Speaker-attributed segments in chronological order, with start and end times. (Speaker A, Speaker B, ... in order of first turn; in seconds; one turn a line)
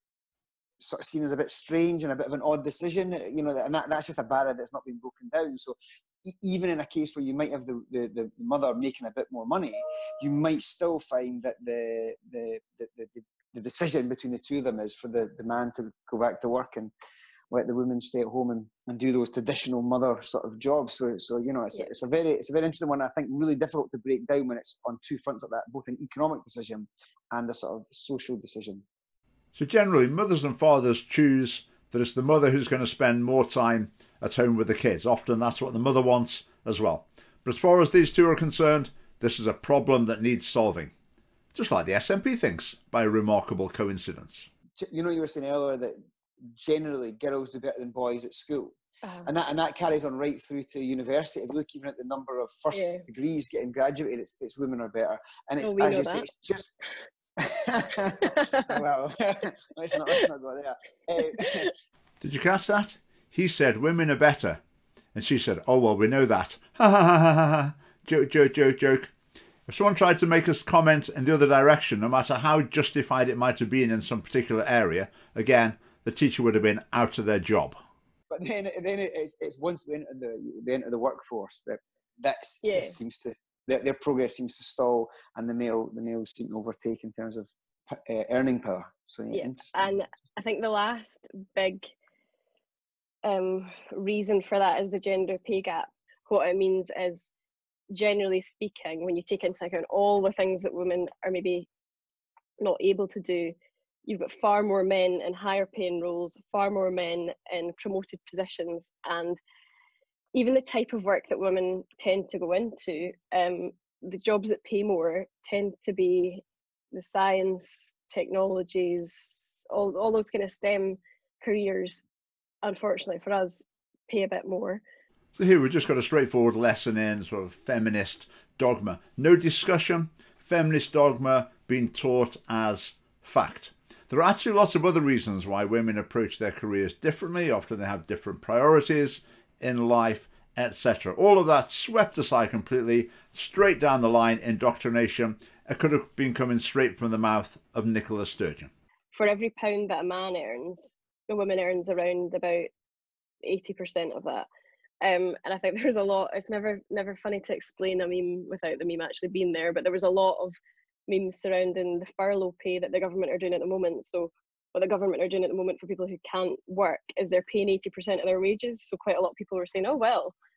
Speaker A: 0.8-16.9
Speaker A: 17.5-28.8
Speaker B: 29.5-40.9
Speaker B: 41.5-44.5
Speaker A: 44.8-46.0
Speaker A: 46.6-56.7
Speaker C: 49.0-49.3
Speaker C: 52.7-53.0
Speaker C: 55.6-56.2
Speaker A: 57.4-61.7
Speaker C: 58.2-58.8
Speaker C: 61.4-61.6
Speaker B: 62.2-64.6
Speaker B: 65.1-69.1
Speaker B: 69.7-77.8
Speaker A: 78.3-89.9
Speaker C: 82.6-83.0
Speaker C: 89.3-91.9
Speaker C: 93.2-97.3
Speaker C: 97.9-101.7
Speaker C: 102.6-109.4
Speaker C: 110.3-122.0
Speaker C: 122.6-124.8
Speaker B: 125.3-148.7
Speaker C: 149.1-152.7
Speaker C: 153.4-154.4
Speaker C: 155.0-160.5
Speaker C: 161.1-170.3